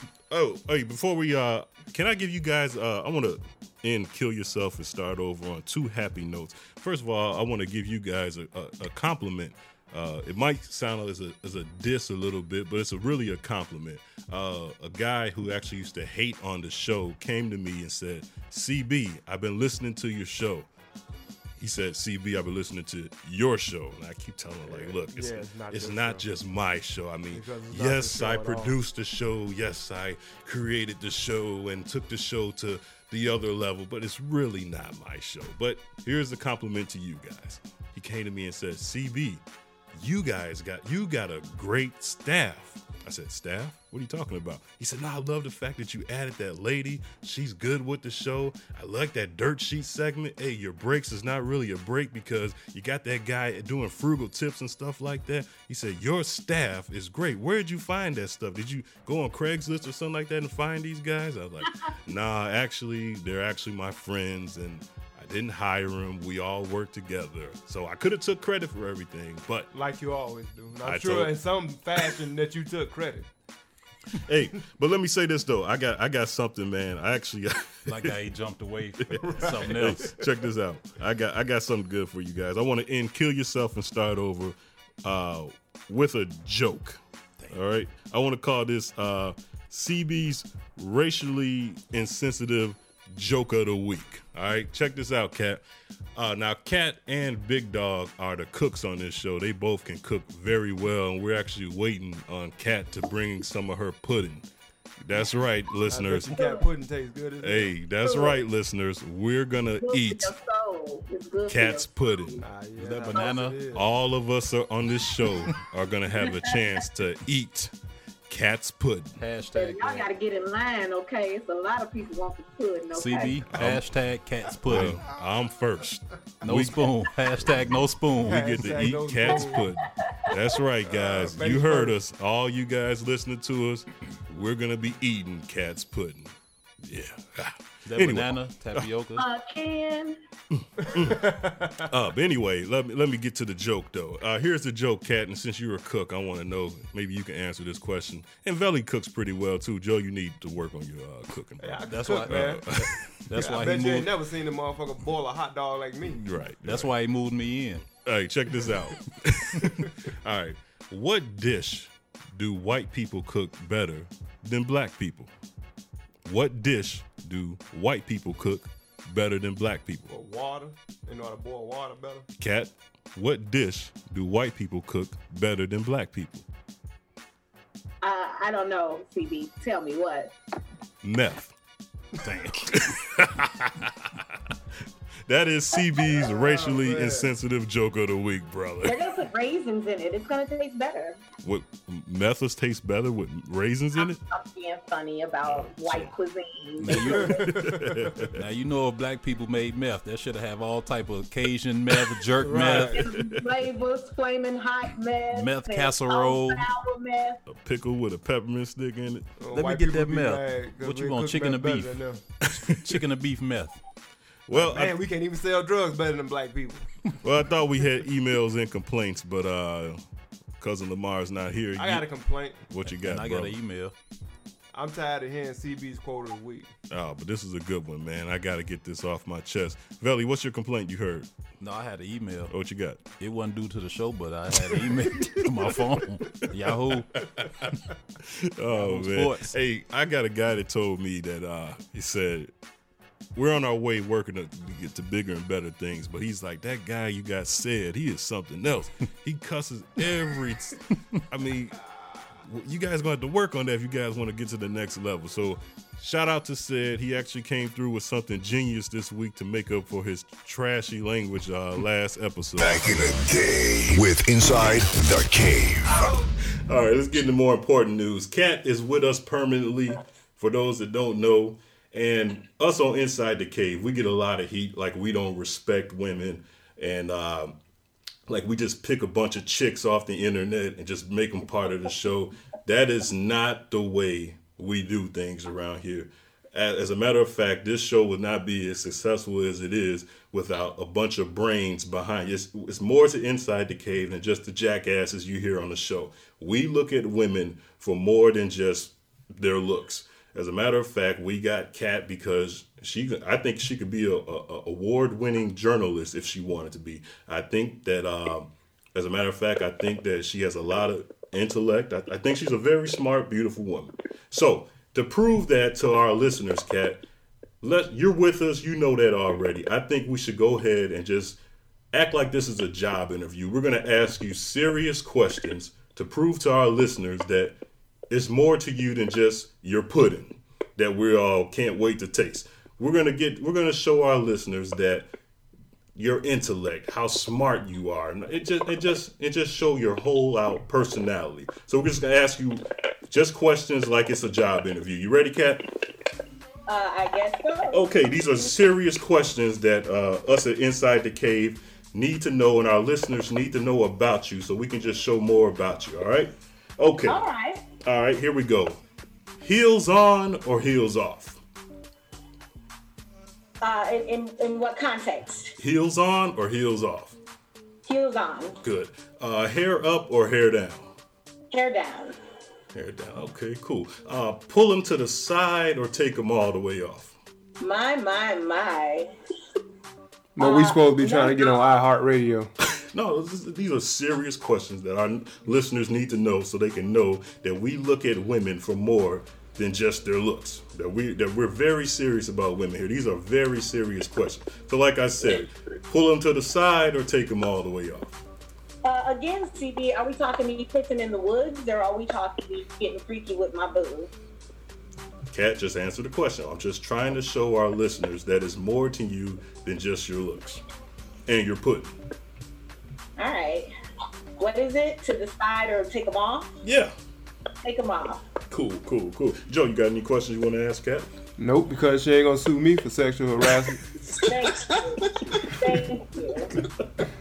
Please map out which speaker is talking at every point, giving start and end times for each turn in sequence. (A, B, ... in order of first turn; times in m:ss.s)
0:00.3-0:20.7 A
0:21.6-0:39.4 A
0:24.6-0:26.3 B
0:27.3-0:28.8 B
0:39.9-1:09.7 A
1:09.7-1:13.3 B
1:10.8-1:11.4 A
1:14.3-1:18.2 A
1:17.9-1:20.1 C
1:19.1-1:35.6 A
1:19.2-1:20.0 B
1:36.2-1:44.5 A
1:45.0-1:46.4 A
1:45.1-1:47.8 B
1:46.4-1:46.6 D
1:47.4-1:50.3 A
1:48.0-1:48.4 D
1:49.8-1:52.1 D
1:51.5-1:52.5 A
1:52.4-1:53.9 B
1:52.8-1:53.6 C
1:53.7-1:57.7 A
1:56.2-1:56.5 D
1:58.3-1:59.2 A
1:59.2-2:00.1 C
1:59.5-2:03.4 D
2:02.9-2:05.0 C
2:03.5-2:03.9 A
2:04.7-2:06.8 A
2:06.4-2:08.8 C
2:07.4-2:18.9 A
2:08.2-2:09.7 B
2:10.8-2:12.0 B
2:17.9-2:19.3 C
2:19.2-2:20.2 D
2:20.6-2:21.2 A
2:20.9-2:21.9 B
2:21.9-2:33.1 A
2:31.6-2:32.6 B
2:31.9-2:32.6 C
2:33.3-2:34.1 C
2:33.4-2:36.2 B
2:36.0-2:36.9 A
2:36.6-2:37.9 C
2:38.0-2:45.3 A
2:46.2-2:50.1 A
2:50.1-2:52.3 B
2:52.4-2:56.4 A
2:58.0-3:00.3 D
3:01.0-3:01.6 A
3:02.2-3:02.7 C
3:02.7-3:04.1 A
3:05.3-3:09.1 A
3:05.9-3:07.3 B
3:08.8-3:11.2 D
3:11.4-3:14.2 A
3:14.0-3:17.4 D
3:15.4-3:16.1 A
3:16.8-3:17.4 C
3:17.1-3:17.9 B
3:17.4-3:18.4 A
3:18.4-3:23.0 C
3:22.4-3:23.0 B
3:22.9-3:27.4 D
3:23.1-3:23.4 A
3:25.3-3:26.7 C
3:27.5-3:29.3 A
3:29.4-3:32.2 B
3:29.5-3:32.1 C
3:32.7-3:33.8 C
3:34.5-3:35.0 A
3:34.5-3:36.9 B
3:37.2-3:40.0 A
3:40.6-3:42.1 A
3:41.8-3:42.7 B
3:42.7-3:43.6 A
3:42.8-3:43.9 C
3:44.7-3:46.7 B
3:46.9-3:51.3 A
3:51.6-3:52.5 C
3:52.5-3:53.0 A
3:53.2-3:57.1 C
3:58.6-4:02.5 A
3:58.7-3:59.5 C
4:03.4-4:11.8 A
4:12.4-4:23.0 A
4:22.6-4:26.2 E
4:26.7-4:37.6 A
4:38.3-5:17.0 A
5:17.6-5:21.4 A
5:21.9-5:27.6 A
5:28.1-5:35.1 A
5:36.0-5:45.7 A
5:46.7-5:47.8 D
5:47.7-5:57.2 A
5:57.0-5:57.6 D
5:57.8-5:58.8 A
5:59.4-6:01.4 A
6:03.6-6:05.5 D
6:05.6-6:07.2 A
6:07.9-6:08.6 D
6:08.6-6:10.9 A
6:11.5-6:12.2 D
6:12.7-6:17.2 A
6:17.6-6:19.1 D
6:20.4-6:22.5 B
6:20.4-6:21.6 D
6:22.8-6:38.2 A
6:38.8-6:44.1 D
6:45.3-6:50.6 A
6:51.3-6:51.9 A
6:53.2-6:53.7 D
6:54.4-6:56.5 D
6:56.6-6:56.9 A
6:57.6-6:58.2 D
6:58.5-7:01.1 A
7:01.4-7:03.8 B
7:04.2-7:06.5 D